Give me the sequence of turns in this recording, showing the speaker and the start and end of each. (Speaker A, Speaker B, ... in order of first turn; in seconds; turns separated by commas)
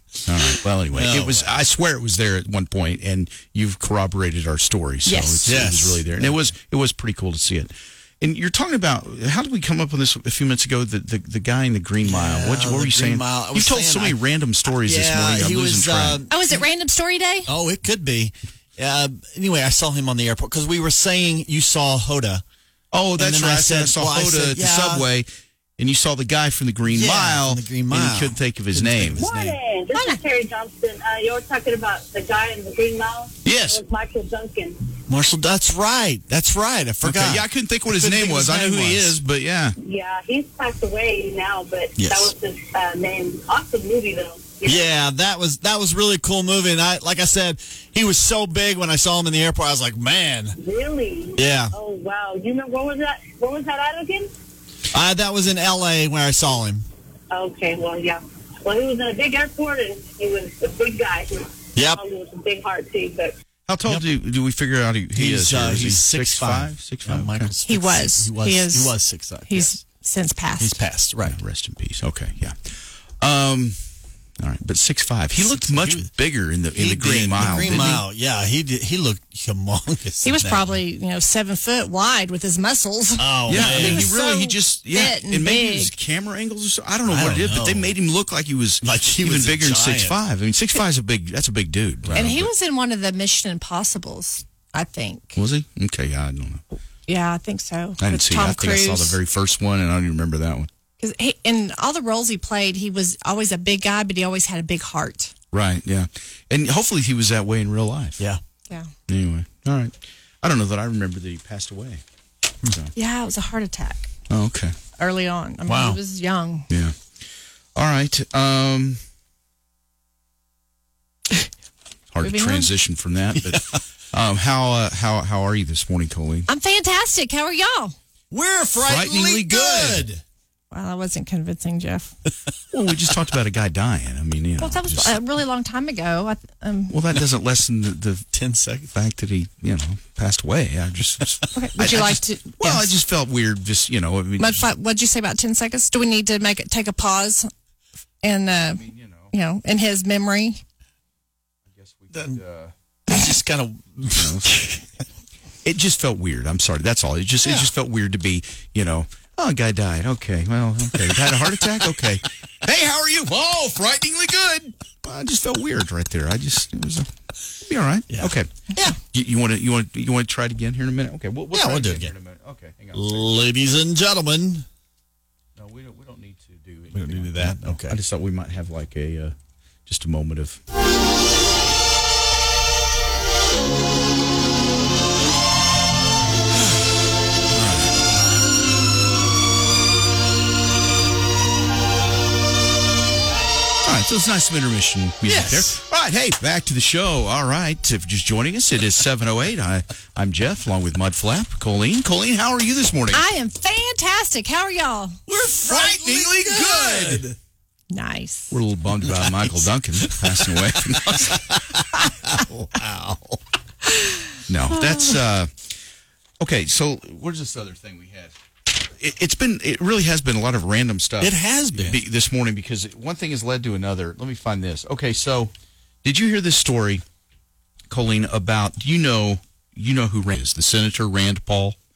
Speaker A: 0.3-16.2, Speaker B: 0.9-1.5, Speaker C: 5.1-5.5, Speaker B: 5.5-6.4, Speaker B: 12.0-16.6, Speaker C: 16.3-17.5, Speaker B: 17.5-22.4, Speaker A: 22.9-29.3, Speaker B: 23.2-25.1, Speaker B: 26.9-29.6, Speaker D: 29.1-34.9, Speaker C: 29.9-30.2, Speaker A: 33.5-33.8, Speaker B: 35.1-39.2, Speaker A: 37.0-39.8, Speaker D: 39.8-44.9, Speaker B: 42.0-42.3, Speaker B: 44.6-50.6, Speaker D: 50.6-54.3, Speaker B: 51.4-51.7, Speaker B: 54.9-56.9, Speaker D: 57.3-63.4, Speaker B: 61.8-62.0, Speaker A: 63.7-67.5, Speaker B: 65.2-69.8, Speaker C: 67.7-69.0, Speaker C: 69.5-70.8, Speaker B: 70.6-71.4, Speaker A: 71.3-73.8, Speaker A: 74.4-78.1, Speaker B: 75.4-76.1, Speaker B: 76.7-80.8, Speaker C: 80.2-85.9, Speaker B: 83.2-84.2, Speaker A: 83.5-92.5, Speaker B: 87.1-87.9, Speaker B: 88.8-90.2, Speaker C: 92.2-95.4, Speaker A: 95.4-96.6, Speaker C: 97.1-99.2, Speaker A: 98.0-100.7, Speaker C: 101.0-105.3, Speaker A: 105.5-108.2, Speaker A: 109.1-112.0, Speaker C: 113.0-114.1, Speaker A: 114.3-114.8, Speaker C: 115.0-116.7, Speaker B: 115.7-116.0, Speaker A: 116.7-117.1, Speaker A: 117.8-119.0, Speaker A: 122.1-126.5, Speaker C: 122.2-122.7, Speaker B: 123.5-123.8, Speaker C: 126.5-128.0, Speaker B: 128.3-130.2, Speaker A: 128.9-130.1, Speaker C: 130.7-132.1, Speaker A: 132.7-135.2, Speaker C: 134.6-137.0, Speaker A: 136.9-138.3, Speaker B: 138.3-138.9, Speaker A: 138.9-144.7, Speaker C: 141.6-142.9, Speaker C: 144.4-147.5, Speaker C: 148.2-150.6, Speaker A: 148.7-149.3, Speaker A: 151.7-152.7, Speaker B: 152.1-152.4, Speaker B: 153.1-154.8, Speaker A: 154.2-154.6, Speaker A: 155.6-168.5, Speaker B: 157.4-157.7, Speaker B: 168.1-169.0, Speaker A: 169.1-173.4, Speaker B: 171.5-172.1, Speaker B: 172.9-174.7, Speaker A: 175.6-179.3, Speaker B: 176.9-178.0, Speaker A: 179.9-180.6, Speaker A: 187.5-188.0, Speaker A: 193.8-203.3, Speaker B: 195.2-195.7, Speaker C: 203.1-205.2, Speaker B: 205.3-207.4, Speaker A: 205.6-207.3, Speaker C: 207.9-208.6, Speaker A: 208.5-211.4, Speaker B: 209.1-213.4, Speaker A: 214.5-215.7, Speaker A: 216.4-225.5, Speaker B: 221.2-222.0, Speaker A: 226.0-227.0, Speaker A: 227.9-231.8